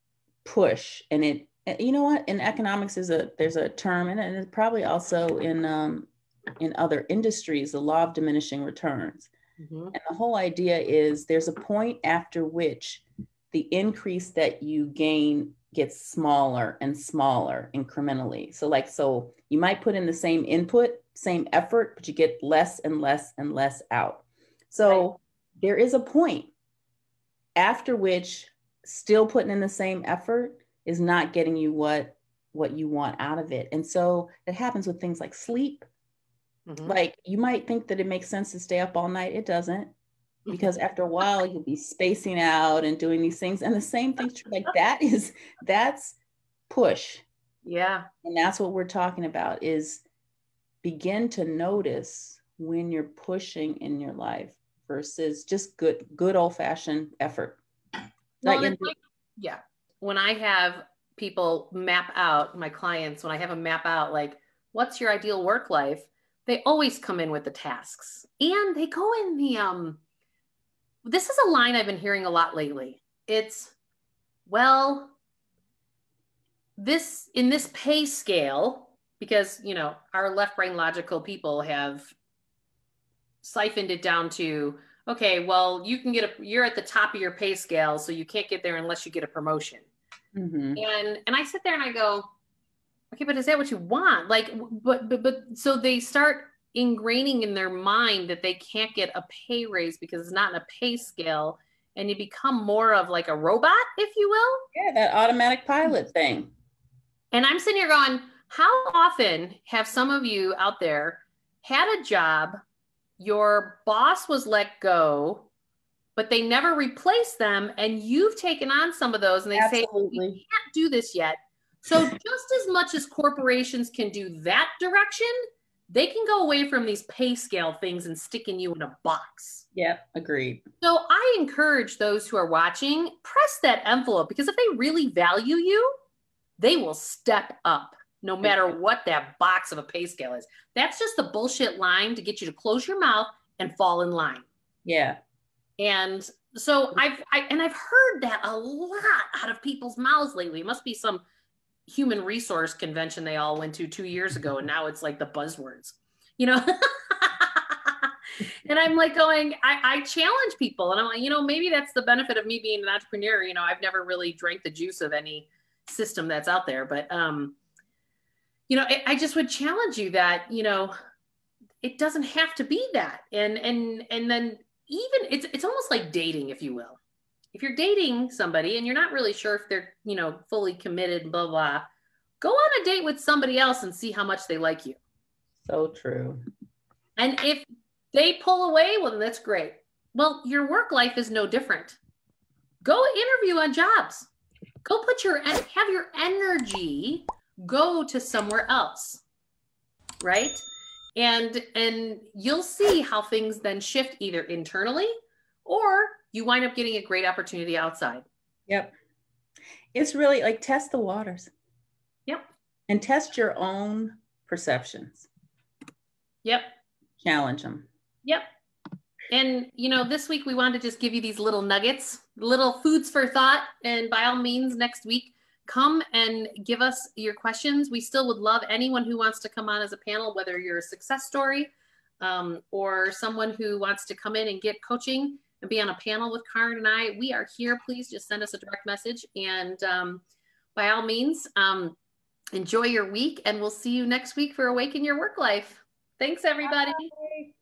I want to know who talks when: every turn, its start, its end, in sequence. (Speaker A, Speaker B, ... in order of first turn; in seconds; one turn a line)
Speaker A: 0.4-9.3
Speaker B: 9.6-9.9
Speaker A: 9.9-26.5
Speaker B: 24.8-25.1
Speaker A: 27.6-35.9
Speaker B: 36.7-37.0
Speaker A: 36.8-39.9
Speaker B: 40.5-40.7
Speaker A: 40.5-46.2
Speaker A: 46.7-47.2
Speaker B: 47.6-48.0
Speaker A: 48.2-50.0
Speaker A: 50.8-57.6
Speaker B: 58.4-70.0
Speaker A: 58.4-58.9
Speaker B: 71.0-73.7
Speaker B: 74.5-75.2
Speaker B: 76.8-82.1
Speaker B: 83.4-89.8
Speaker A: 90.3-90.8
Speaker B: 90.7-92.3
Speaker B: 93.1-104.6
Speaker A: 104.7-106.5
Speaker B: 107.3-112.6
Speaker B: 113.2-115.5
Speaker B: 116.2-125.3
Speaker A: 119.5-120.4
Speaker B: 125.9-129.7
Speaker A: 129.7-130.6
Speaker B: 130.8-135.9
Speaker B: 136.6-144.4
Speaker A: 138.4-138.7
Speaker A: 144.8-145.2
Speaker B: 145.8-151.2
Speaker B: 151.9-158.1
Speaker B: 158.7-167.5
Speaker B: 168.7-170.9
Speaker B: 171.8-177.0
Speaker B: 177.5-181.8
Speaker B: 182.4-185.0
Speaker A: 185.6-186.4
Speaker B: 187.2-192.0
Speaker B: 192.8-194.3
Speaker B: 194.8-199.2
Speaker B: 200.2-205.1
Speaker B: 205.6-208.2
Speaker A: 209.9-211.5
Speaker A: 212.9-215.3
Speaker B: 216.4-216.7
Speaker A: 217.2-217.9
Speaker B: 219.3-240.2
Speaker B: 240.7-241.9
Speaker B: 242.5-247.1
Speaker A: 246.6-247.5